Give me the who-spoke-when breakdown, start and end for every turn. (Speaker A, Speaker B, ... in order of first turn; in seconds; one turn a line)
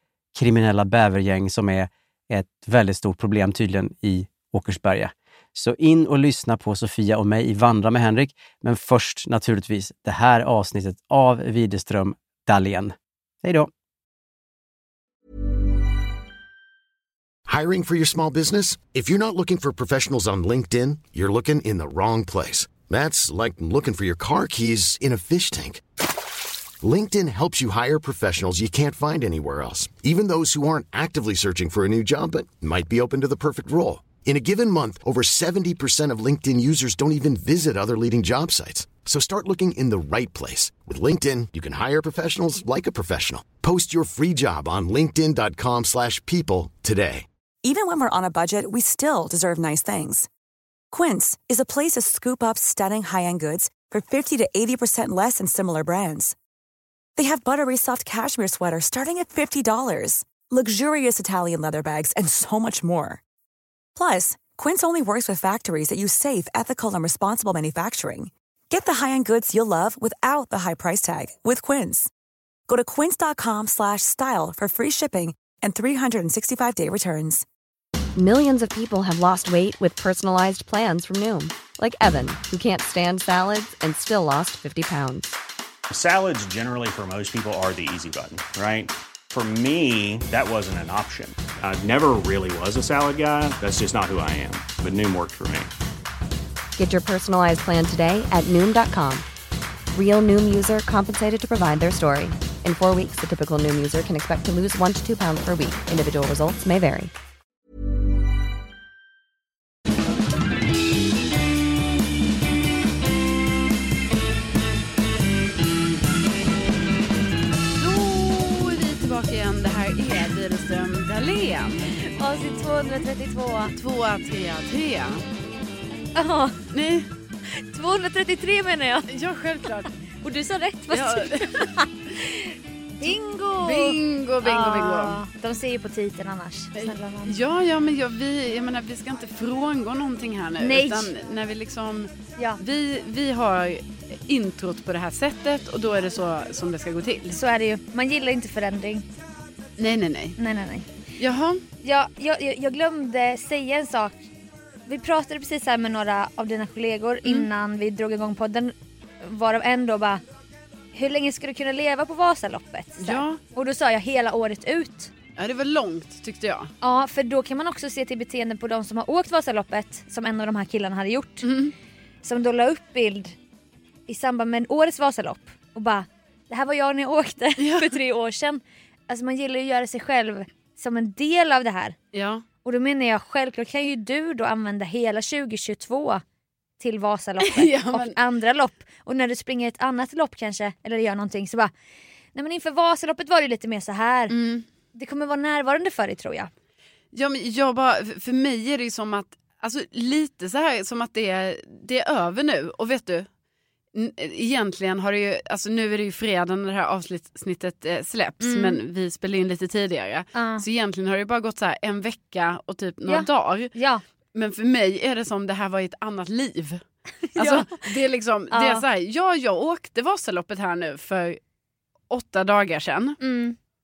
Speaker A: 0.3-13.7
Speaker B: 17.4-25.8
Speaker B: 26.8-47.2
Speaker C: 47.6-50.3
Speaker C: 50.9-56.3
Speaker C: 57.1-63.2
Speaker C: 64.0-72.1
Speaker C: 72.7-77.4
Speaker D: 78.2-85.4
Speaker E: 85.9-95.7
Speaker D: 96.8-99.3
Speaker D: 99.9-107.1
Speaker F: 117.8-122.0
Speaker G: 122.0-123.8
Speaker F: 123.8-125.2
Speaker G: 126.2-126.6
Speaker F: 126.7-127.1
Speaker G: 127.5-129.1
Speaker F: 129.1-129.9
Speaker G: 130.2-137.4
Speaker F: 130.9-131.7
Speaker F: 133.0-135.2
Speaker F: 136.8-147.4
Speaker G: 140.6-141.1
Speaker G: 147.3-149.1
Speaker F: 149.8-150.4
Speaker G: 150.4-150.9
Speaker F: 151.2-151.6
Speaker G: 151.8-154.2
Speaker G: 154.9-160.2
Speaker G: 160.9-165.1
Speaker F: 163.0-163.4
Speaker F: 165.4-166.7
Speaker G: 166.8-171.5
Speaker F: 171.4-171.7
Speaker G: 172.2-173.4
Speaker G: 174.1-182.0
Speaker F: 177.6-177.9
Speaker F: 182.1-182.4
Speaker G: 182.7-186.2
Speaker G: 186.8-191.7
Speaker F: 187.4-188.2
Speaker G: 192.3-194.3
Speaker F: 194.3-194.7
Speaker G: 194.9-196.5
Speaker F: 197.1-203.3
Speaker F: 203.9-213.7
Speaker G: 208.4-208.8
Speaker G: 210.3-210.6
Speaker G: 213.1-214.0
Speaker F: 214.3-216.8
Speaker G: 217.3-217.8
Speaker F: 217.3-221.4
Speaker G: 218.5-218.8
Speaker F: 222.1-223.2
Speaker G: 223.2-223.6